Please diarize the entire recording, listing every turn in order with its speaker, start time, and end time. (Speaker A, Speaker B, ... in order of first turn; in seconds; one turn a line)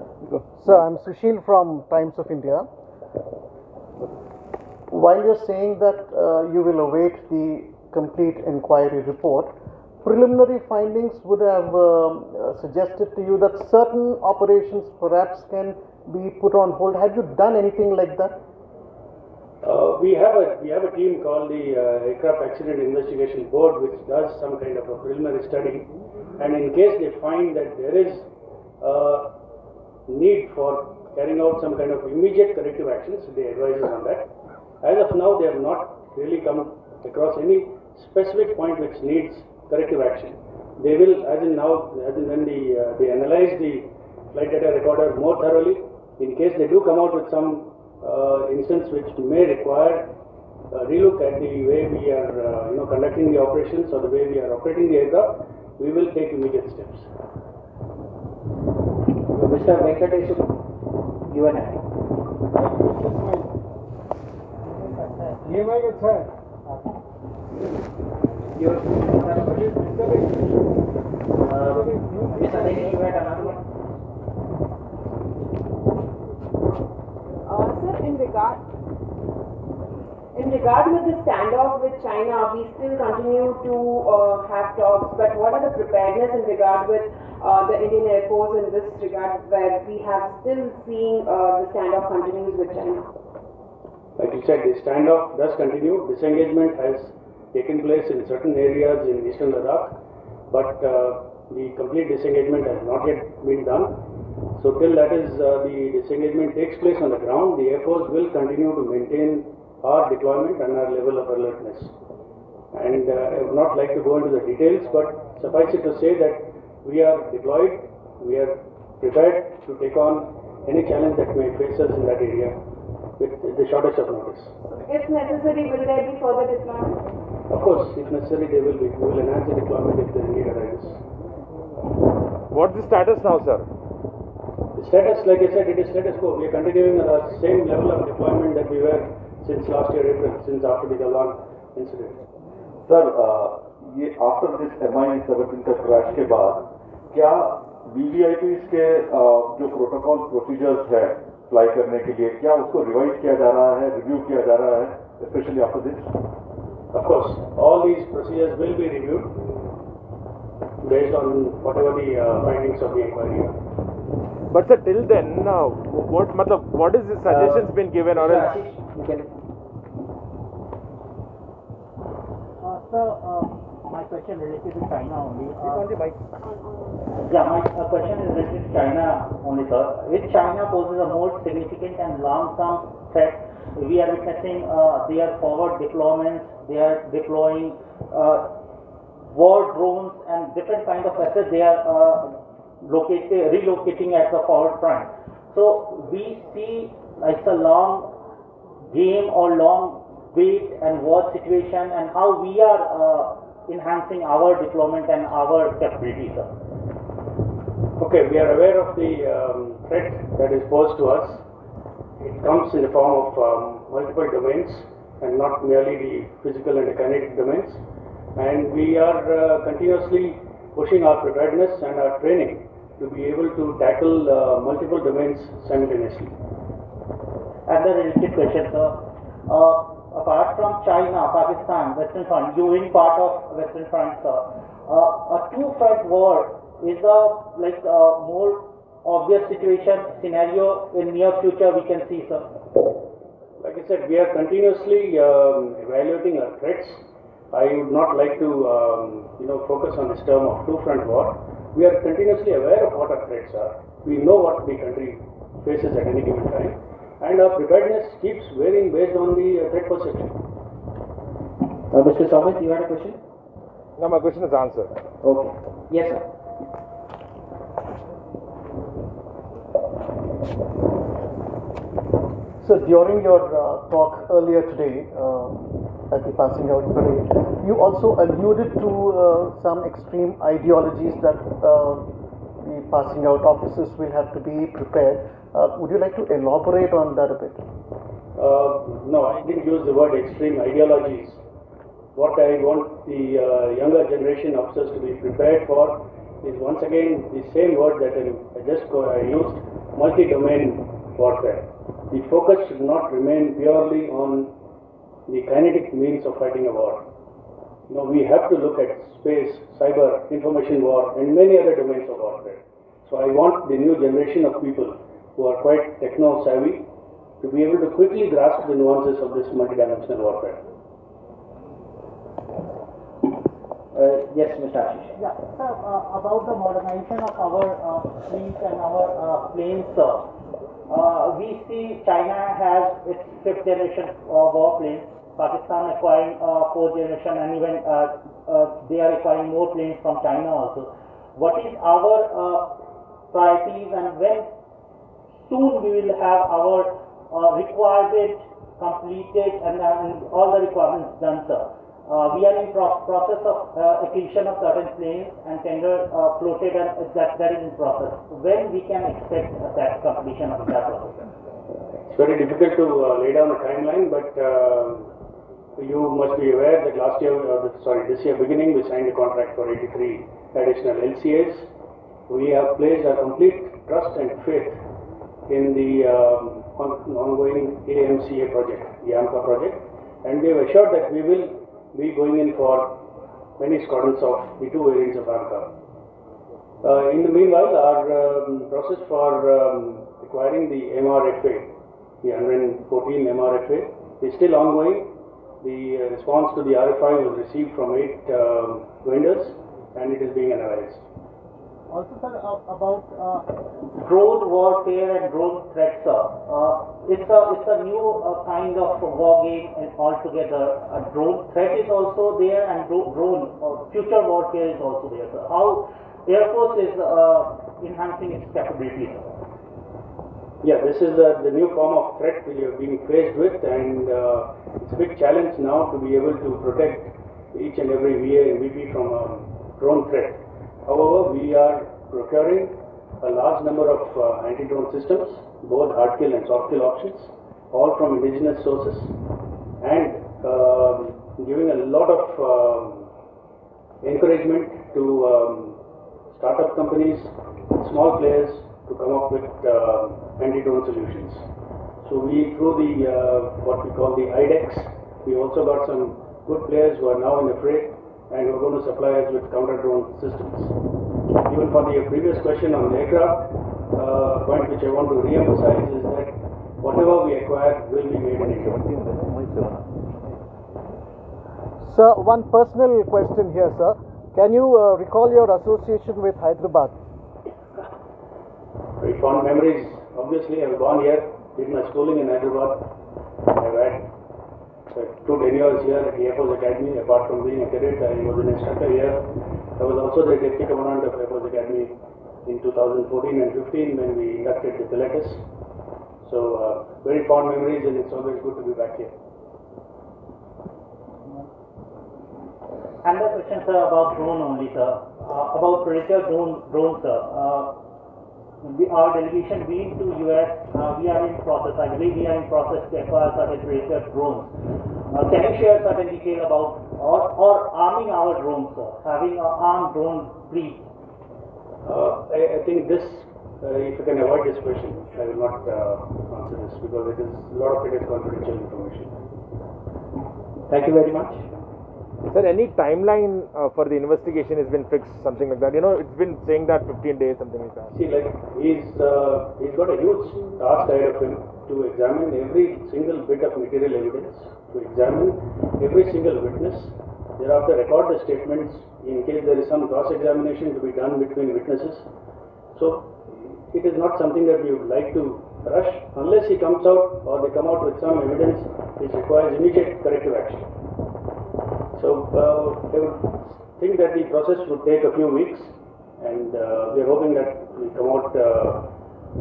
Speaker A: 0.5-2.7
Speaker A: 4.9-9.5
Speaker A: 10.0-18.3
Speaker B: 19.6-25.9
Speaker B: 26.4-28.3
Speaker B: 28.8-29.2
Speaker B: 30.1-34.3
Speaker B: 34.8-50.0
Speaker B: 50.7-57.1
Speaker C: 59.3-60.5
Speaker C: 61.3-61.8
Speaker C: 68.5-69.8
Speaker C: 71.4-73.6
Speaker D: 77.5-78.6
Speaker D: 80.3-93.1
Speaker B: 94.2-99.9
Speaker B: 100.5-103.9
Speaker B: 104.6-111.9
Speaker B: 112.7-122.5
Speaker B: 123.2-124.5
Speaker D: 124.7-127.1
Speaker B: 127.5-131.0
Speaker E: 132.5-133.7
Speaker B: 134.8-142.2
Speaker F: 142.9-156.1
Speaker B: 156.9-159.3
Speaker B: 160.8-163.6
Speaker E: 164.5-168.7
Speaker C: 167.3-169.3
Speaker G: 172.6-175.8
Speaker D: 176.4-177.0
Speaker G: 177.3-188.4
Speaker G: 189.3-198.1
Speaker G: 198.9-206.5
Speaker B: 208.0-211.4
Speaker B: 212.2-217.8
Speaker B: 218.4-226.3
Speaker G: 227.7-228.9
Speaker G: 229.5-242.4
Speaker B: 243.6-260.4
Speaker C: 261.9-263.2
Speaker E: 264.0-264.9
Speaker C: 265.2-266.2
Speaker A: 272.6-282.0
Speaker A: 282.6-287.6
Speaker B: 288.4-291.4
Speaker B: 292.1-304.5
Speaker B: 305.3-307.0
Speaker B: 307.9-316.8
Speaker B: 317.4-320.6
Speaker C: 323.9-325.1
Speaker G: 325.2-330.2
Speaker G: 330.9-342.7
Speaker G: 343.3-344.5
Speaker G: 345.4-361.2
Speaker B: 362.1-365.1
Speaker B: 365.8-371.7
Speaker B: 372.3-374.8
Speaker B: 375.5-382.9
Speaker B: 383.6-385.7
Speaker B: 386.8-391.7
Speaker B: 392.2-395.1
Speaker B: 395.6-401.1
Speaker G: 401.9-419.3
Speaker B: 420.6-439.1
Speaker B: 439.8-443.1
Speaker B: 444.0-445.8
Speaker B: 446.3-451.5
Speaker B: 452.0-460.7
Speaker B: 461.4-468.8
Speaker F: 468.4-469.8
Speaker A: 471.8-476.9
Speaker B: 479.0-482.8
Speaker B: 483.5-484.1
Speaker B: 484.9-489.2
Speaker B: 489.8-491.9
Speaker B: 492.4-495.4
Speaker B: 496.2-499.1
Speaker G: 503.0-507.7
Speaker G: 508.6-514.5
Speaker G: 515.1-520.8
Speaker B: 521.8-529.1
Speaker C: 530.7-531.4
Speaker E: 532.3-537.9
Speaker B: 537.9-552.1
Speaker B: 552.7-560.7
Speaker B: 561.9-568.8